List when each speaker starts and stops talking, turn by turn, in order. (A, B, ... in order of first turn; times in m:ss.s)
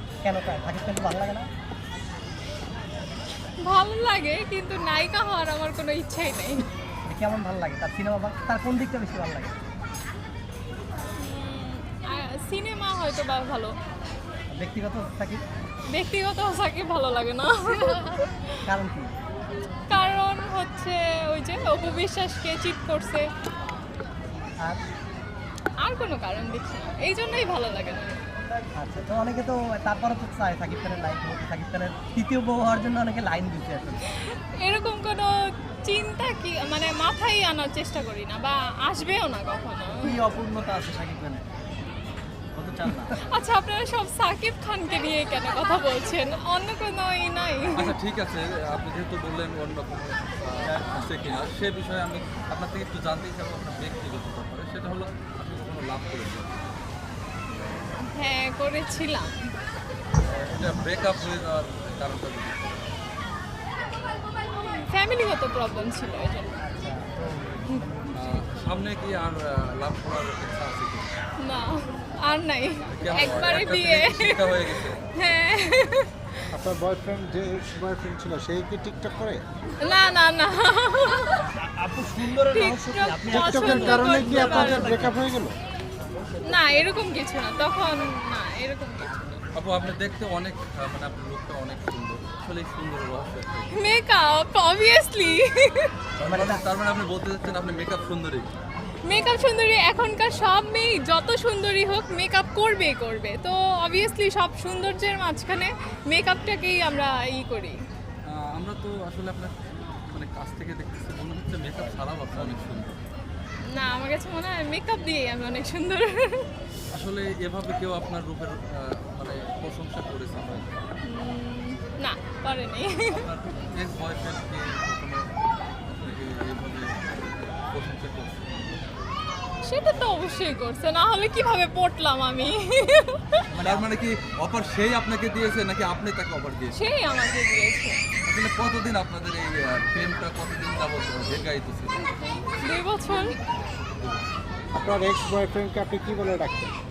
0:00.2-0:01.5 A
0:03.7-0:06.7 B
0:07.1-0:09.6 A
0:11.2-0:13.8 B
0:14.6-0:15.4 A
0:15.9-0:18.6 B
0:18.7-0:19.1 A
0:19.9-0:23.3 B
0:25.8-0:28.2 B
0:28.8-0:34.0 A
0:34.1-0:35.3 B
0:35.8-0:40.2 B
0:40.0-0:41.4 A
0:42.6-0:43.2 A
0:43.3-0:47.9 B
0:47.8-0:56.6 C
0:50.8-0:51.0 A
0:57.6-0:59.4 B
1:00.2-1:02.9 C
1:04.6-1:06.6 B
1:06.6-1:08.5 A
1:08.1-1:11.1 C
1:11.4-1:16.1 B
1:12.9-1:15.0 C
1:16.5-1:19.4 D
1:19.8-1:21.4 B
1:21.4-1:25.1 A
1:22.5-1:25.0 B
1:23.3-1:25.6 D
1:26.4-1:29.4 B
1:29.5-1:33.8 C
1:33.7-1:35.9 B
1:36.2-1:36.6 A
1:36.2-1:38.5 C
1:39.1-1:47.8 B
1:48.3-1:49.6 C
1:50.1-1:53.0 C
1:53.7-1:56.5 B
1:56.9-2:00.8 C
2:01.1-2:03.2 B
2:03.0-2:08.6 C
2:09.6-2:13.4 B
2:13.5-2:13.9 A
2:13.6-2:16.8 C
2:16.7-2:18.0 B
2:18.2-2:22.1 C
2:22.6-2:23.4 B
2:24.7-2:26.7 D